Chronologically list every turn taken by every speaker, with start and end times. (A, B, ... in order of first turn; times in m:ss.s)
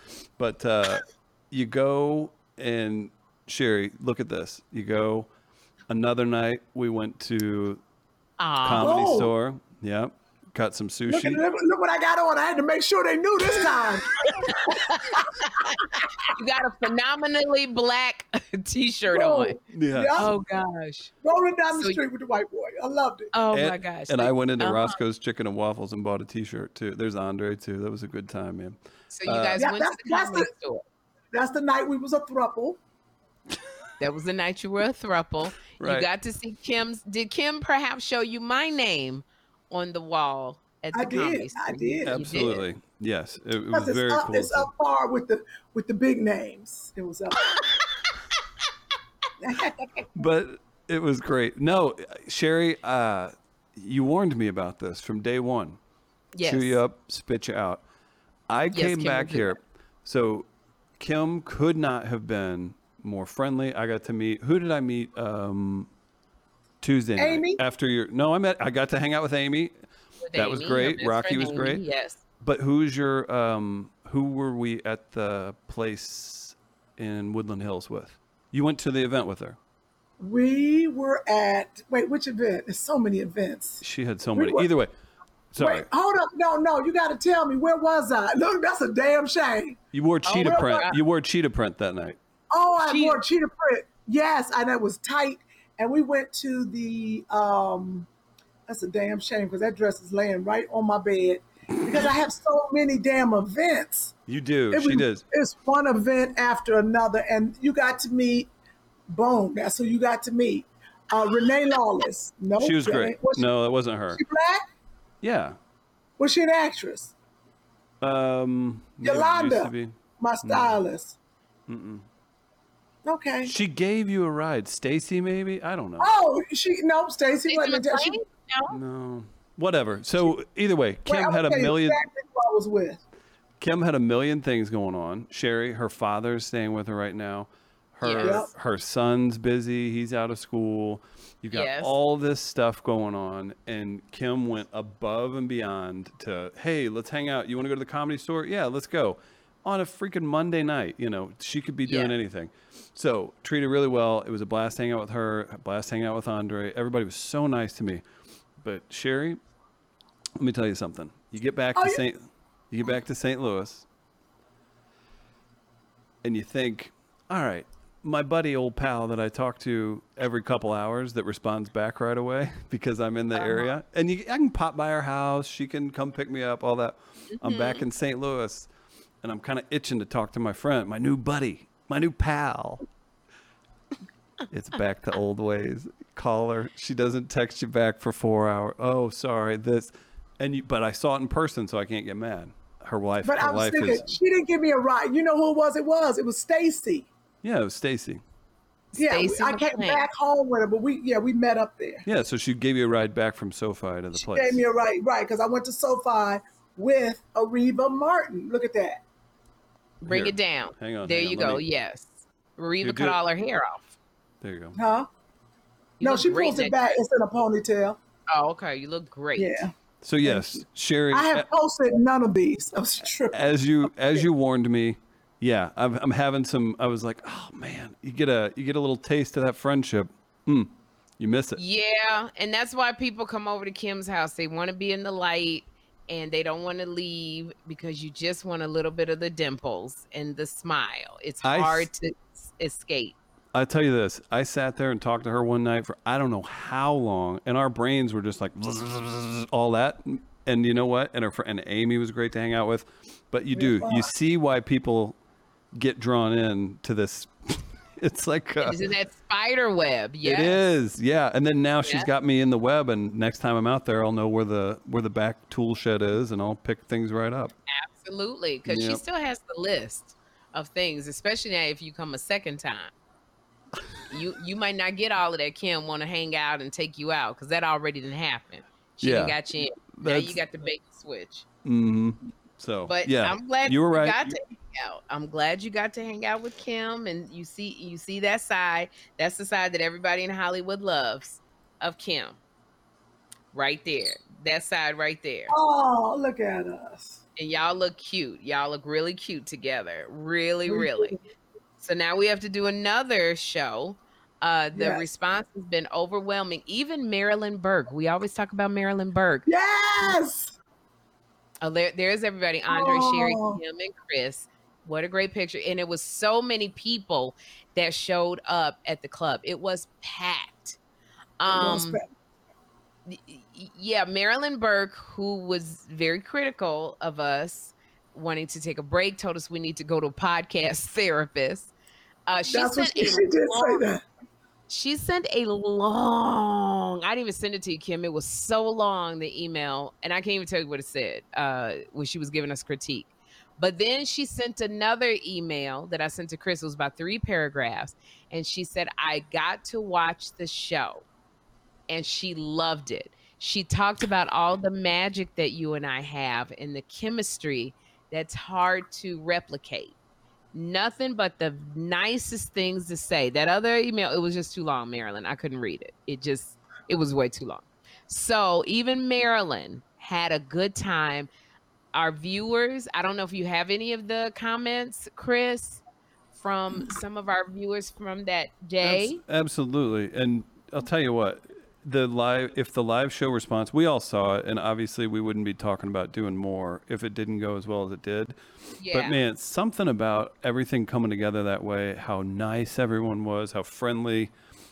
0:00.4-0:05.3 A
0:05.9-0:07.8 A
0:08.4-0:08.9 B
0:08.6-0:11.4 A
0:08.8-0:09.3 C
0:11.1-0:15.2 C
0:14.3-0:19.6 B
0:19.1-0:20.3 C
0:19.7-0:20.3 A
0:20.2-0:21.1 B
0:21.2-0:23.3 C
0:21.7-0:22.0 B
0:23.3-0:25.0 B
0:23.5-0:29.6 A
0:29.1-0:30.8 B
0:29.6-0:30.5 C
0:31.3-0:32.8 C
0:34.0-0:42.6 B
0:35.8-0:36.1 A
0:40.9-0:42.5 C
0:42.0-0:44.7 A
0:43.7-0:47.4 C
0:49.4-0:50.1 C
0:50.2-0:55.8 A
0:56.3-0:56.8 B
0:56.4-0:57.8 A
0:58.5-1:00.4 A
0:58.7-0:59.6 B
1:01.0-1:05.9 A
1:06.8-1:09.7 A
1:07.2-1:07.6 C
1:10.2-1:12.2 B
1:10.3-1:11.8 A
1:12.4-1:19.6 A
1:20.2-1:23.8 C
1:23.8-1:24.9 A
1:24.3-1:24.7 C
1:25.5-1:25.8 A
1:25.6-1:29.8 C
1:29.9-1:32.2 A
1:30.2-1:31.0 B
1:30.4-1:30.7 C
1:32.5-1:38.1 C
1:32.9-1:33.2 B
1:38.7-1:44.1 C
1:44.3-1:45.2 A
1:44.7-1:48.5 C
1:49.1-1:53.5 C
1:52.6-1:54.2 A
1:54.1-1:54.6 C
1:55.2-1:55.6 A
1:56.2-1:57.1 C
1:58.0-2:00.8 A
1:59.0-2:01.2 C
2:01.7-2:02.0 A
2:03.0-2:03.5 C
2:03.4-2:06.1 A
2:06.0-2:08.2 C
2:07.5-2:08.8 B
2:08.7-2:12.0 A
2:11.1-2:13.0 C
2:13.6-2:38.0 A
2:18.0-2:18.4 B
2:18.2-2:18.5 C
2:21.5-2:21.9 B
2:31.9-2:32.1 B
2:38.6-2:39.4 A
2:40.4-2:42.2 A
2:41.7-2:42.0 C
2:42.7-2:43.8 A
2:46.2-2:58.7 A
2:53.3-2:53.7 B
2:57.3-2:57.8 B
2:59.2-3:02.8 A
3:04.5-3:14.1 A
3:13.2-3:17.1 C
3:17.4-3:18.2 A
3:18.9-3:20.0 B
3:19.0-3:22.0 C
3:22.0-3:24.6 A
3:24.1-3:29.0 C
3:30.0-3:33.9 B
3:30.1-3:31.6 A
3:32.8-3:33.2 A
3:34.4-3:34.8 A
3:34.7-3:35.1 C
3:36.0-3:36.8 B
3:36.0-3:38.0 C
3:38.3-3:39.6 B
3:39.4-3:39.7 C
3:40.0-3:41.4 A
3:40.2-3:43.4 C
3:43.3-3:51.6 A
3:51.6-4:03.1 B
4:01.4-4:01.9 A
4:03.5-4:15.1 A
4:13.5-4:14.1 C
4:15.7-4:18.8 A
4:18.6-4:20.6 B
4:20.2-4:27.5 A
4:21.8-4:22.1 B
4:27.7-4:32.9 B
4:28.6-4:29.0 A
4:34.1-4:41.4 B
4:39.0-4:39.4 A
4:39.9-4:40.4 A
4:41.6-4:44.3 A
4:42.9-4:52.4 B
4:53.5-4:55.5 B
4:55.5-4:57.2 C
4:57.4-5:01.2 B
5:00.7-5:01.2 C
5:01.8-5:09.5 B
5:04.7-5:05.0 C
5:09.4-5:10.6 C
5:11.6-5:20.8 B
5:12.7-5:13.6 C
5:21.4-5:22.0 B
5:21.5-5:22.1 C
5:23.1-5:31.7 B
5:32.3-5:33.8 B
5:32.5-5:34.0 C
5:34.7-5:51.0 B
5:51.9-5:59.9 B
6:00.5-6:11.3 B
6:11.9-6:15.8 B
6:16.3-6:19.2 B
6:18.8-6:28.4 A
6:28.8-6:29.2 B
6:28.9-6:34.3 A